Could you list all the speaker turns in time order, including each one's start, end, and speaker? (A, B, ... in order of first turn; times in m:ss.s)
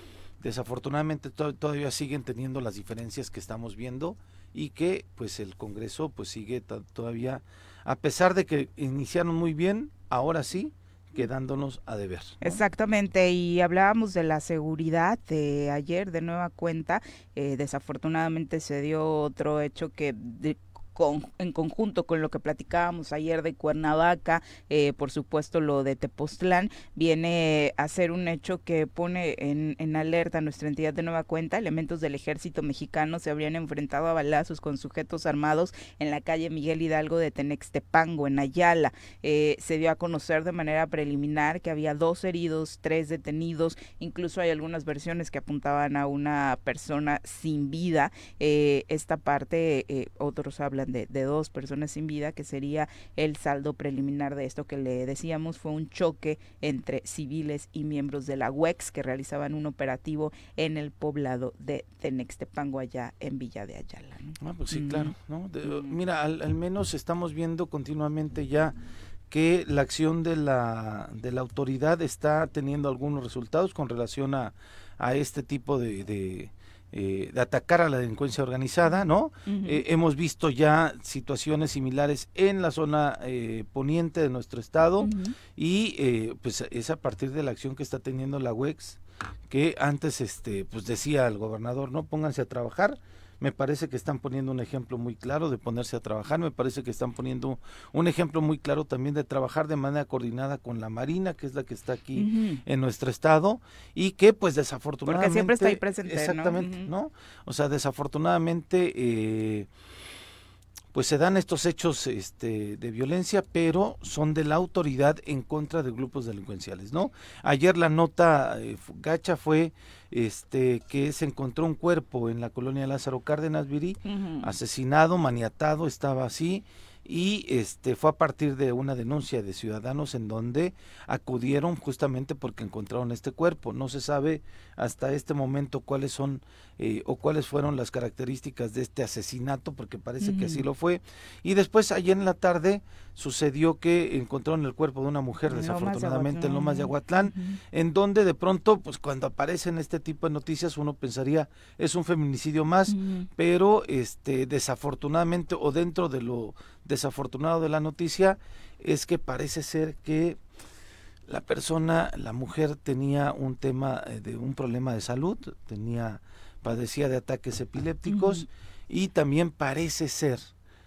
0:00.4-0:12.6 A
0:12.4-1:06.0 B
1:04.4-1:08.8 A
1:09.3-1:49.7 A
1:19.5-1:19.8 B
1:25.0-1:25.4 B
1:42.2-1:42.6 B
1:45.0-1:46.9 B
1:50.9-2:40.4 A
2:04.0-2:04.5 B
2:20.2-2:20.6 B
2:25.5-2:27.6 B
2:32.9-2:33.3 B
2:41.3-2:50.5 A
2:48.1-2:48.4 B